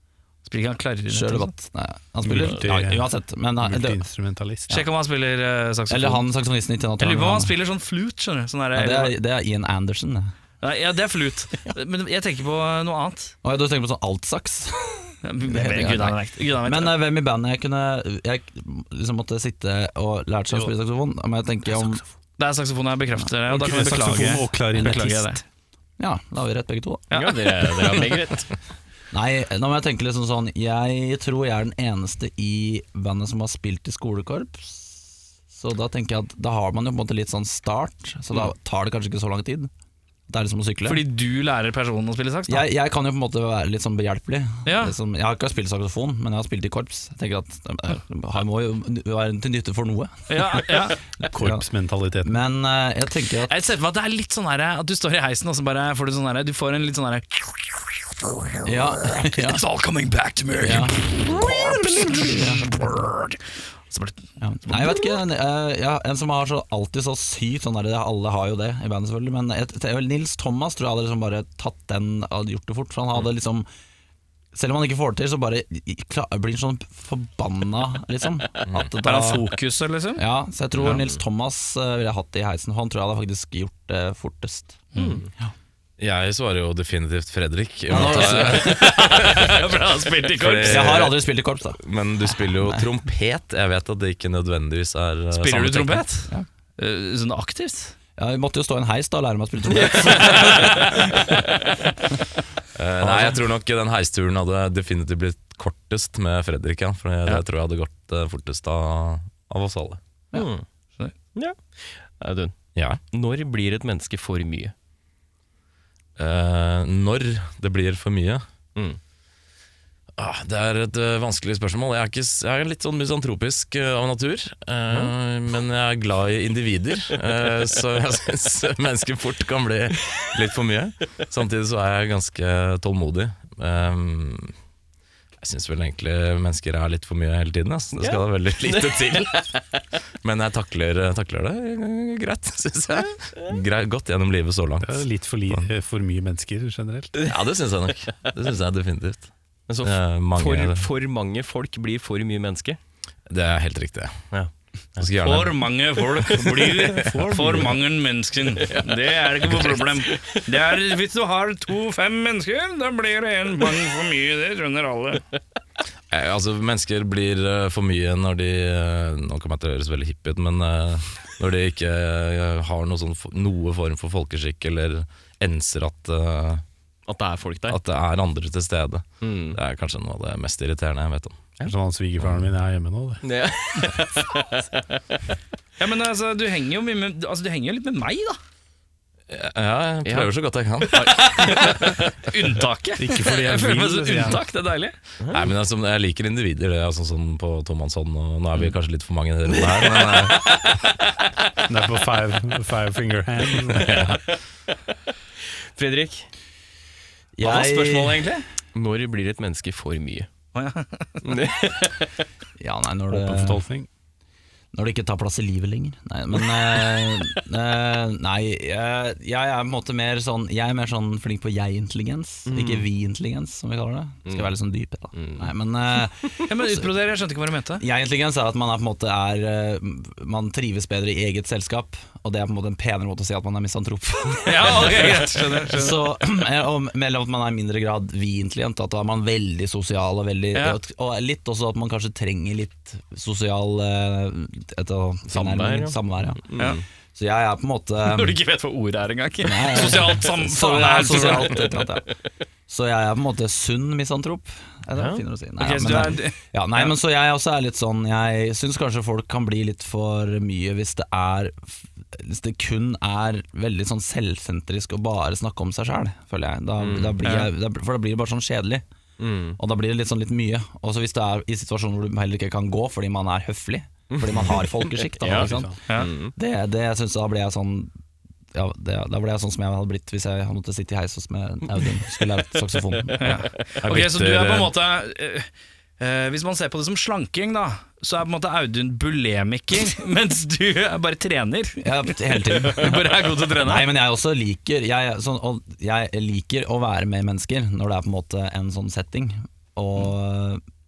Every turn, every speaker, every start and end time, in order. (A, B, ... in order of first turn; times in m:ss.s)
0:00.4-0:01.5 A
0:01.1-0:04.0 B
0:02.2-0:04.8 C
0:04.7-0:06.3 A
0:05.9-0:07.5 B
0:07.0-0:09.2 A
0:08.7-0:10.3 B
0:10.6-0:13.4 A
0:13.4-0:22.0 B
0:15.2-0:17.0 A
0:22.4-0:25.4 A
0:23.5-0:25.4 C
0:26.0-0:27.1 B
0:27.1-0:27.4 A
0:27.1-0:28.5 D
0:29.1-0:39.7 B
0:40.3-0:41.0 B
0:40.8-0:42.7 A
0:42.5-0:51.7 B
0:44.7-0:45.0 A
0:50.3-0:51.0 A
0:51.2-0:52.4 C
0:52.2-0:53.6 B
0:53.5-1:04.2 A
0:58.6-0:59.6 B
1:00.6-1:01.5 B
1:02.2-1:02.7 B
1:04.4-1:13.7 B
1:04.7-1:05.0 A
1:14.5-1:19.5 B
1:19.0-1:20.2 A
1:20.2-1:24.8 B
1:20.8-1:21.2 D
1:24.9-1:25.2 A
1:25.0-1:25.3 D
1:26.0-1:29.6 E
1:27.9-1:29.5 B
1:27.9-1:31.2 A
1:30.3-1:31.3 E
1:30.7-1:31.8 B
1:31.8-1:36.1 E
1:35.3-1:38.0 A
1:38.2-1:41.7 B
1:40.0-1:40.8 A
1:42.8-1:50.0 E
1:43.0-1:43.4 B
1:50.3-1:50.7 D
1:51.3-1:52.6 D
1:52.8-1:53.0 E
1:53.1-1:54.7 D
1:56.2-1:58.4 E
2:00.2-2:14.6 E
2:15.4-2:19.5 E
2:18.0-2:19.6 D
2:20.2-2:25.7 E
2:24.8-2:27.1 C
2:27.2-2:29.3 E
2:29.7-2:32.8 D
2:29.8-2:30.9 E
2:33.3-2:34.2 E
2:34.3-2:35.1 D
2:35.0-2:35.7 E
2:35.2-2:45.2 A
2:36.4-2:37.8 C
2:38.6-2:40.4 D
2:46.1-2:56.6 E
2:57.1-2:57.8 D
2:57.7-3:01.5 E
2:59.2-2:59.6 D
3:01.6-3:03.2 C
3:03.2-3:05.0 D
3:05.8-3:08.4 A
3:09.3-3:11.4 E
3:10.0-3:11.9 D
3:10.9-3:15.0 A
3:13.0-3:14.4 C
3:15.2-3:15.5 D
3:15.3-3:20.8 E
3:19.6-3:20.3 D
3:21.7-3:24.2 C
3:23.8-3:24.2 E
3:25.8-3:26.3 D
3:27.4-3:28.3 B
3:27.4-3:28.4 A
3:28.7-3:30.3 D
3:30.6-3:31.2 A
3:31.2-3:32.1 D
3:32.6-3:33.6 B
3:33.1-3:33.9 C
3:34.7-3:46.9 B
3:42.5-3:42.9 D
3:44.3-3:44.5 D
3:45.1-3:45.5 D
3:46.2-3:46.5 D
3:46.5-3:47.8 A
3:47.8-4:08.4 B
3:54.4-3:56.2 A
4:00.5-4:00.8 A
4:05.3-4:06.8 D
4:08.0-4:11.9 A
4:09.4-4:12.1 B
4:12.7-4:28.8 B
4:14.9-4:15.2 D
4:15.6-4:16.9 A
4:26.8-4:27.2 D
4:27.2-4:27.5 A
4:29.2-4:29.6 D
4:29.6-4:37.9 B
4:34.1-4:36.4 D
4:35.2-4:35.7 C
4:38.5-4:43.4 B
4:43.2-4:53.9 A
4:43.2-4:43.5 D
4:43.8-4:44.7 E
4:51.8-5:00.6 B